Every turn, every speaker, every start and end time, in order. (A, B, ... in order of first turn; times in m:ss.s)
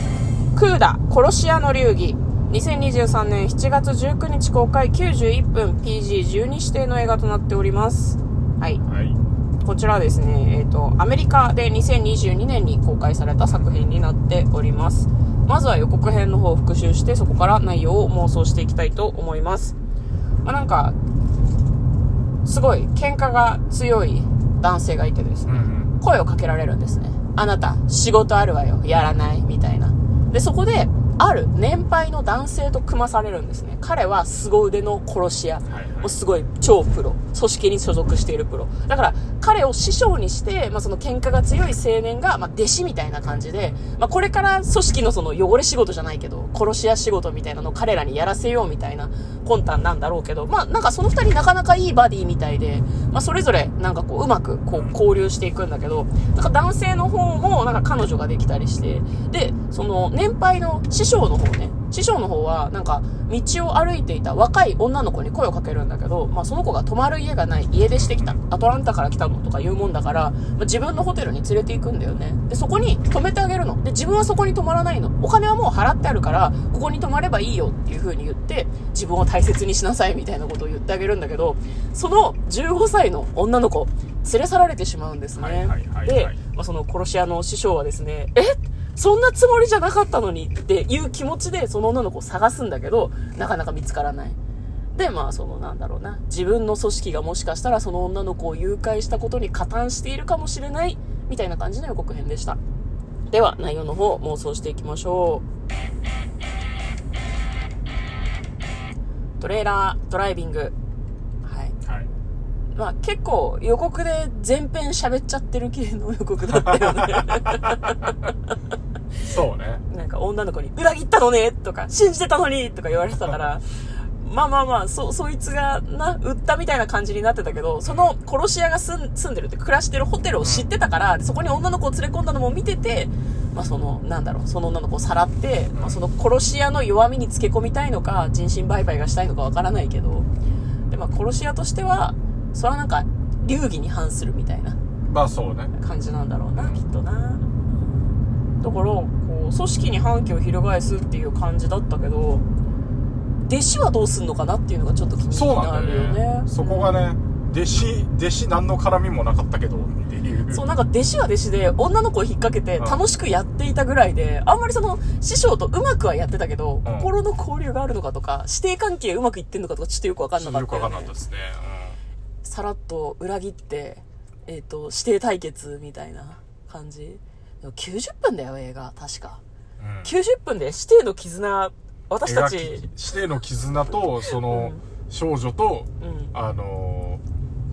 0:00.5-0:08.8 A
0:08.8-0:09.2 B
0:09.6-0:19.8 A
0:13.5-0:13.9 B
0:20.4-0:21.0 A
0:22.4-1:34.4 A
0:25.5-0:25.9 B
0:35.7-0:36.2 B
0:43.2-0:43.8 B
1:08.0-1:08.4 B
1:25.4-1:26.4 B
1:35.0-1:42.6 A
1:43.3-1:45.4 A
1:49.4-1:50.7 A
1:51.4-1:51.8 A
1:51.8-1:52.1 B
1:52.8-1:58.1 A
1:56.5-1:58.1 B
1:59.2-1:59.8 B
1:59.9-2:20.3 A
2:07.8-2:08.2 B
2:10.4-2:10.7 B
2:15.7-2:16.0 B
2:20.9-2:24.8 A
2:25.1-2:25.7 B
2:25.8-2:28.1 A
2:28.6-2:32.4 A
2:33.4-2:37.1 A
2:35.3-2:40.6 B
2:40.5-2:51.1 A
2:46.8-2:47.1 B
2:50.4-2:52.0 B
2:52.4-2:59.4 A
2:59.8-3:00.1 B
3:00.0-3:02.9 A
3:02.2-3:07.2 B
3:04.5-3:04.8 A
3:06.0-3:06.3 A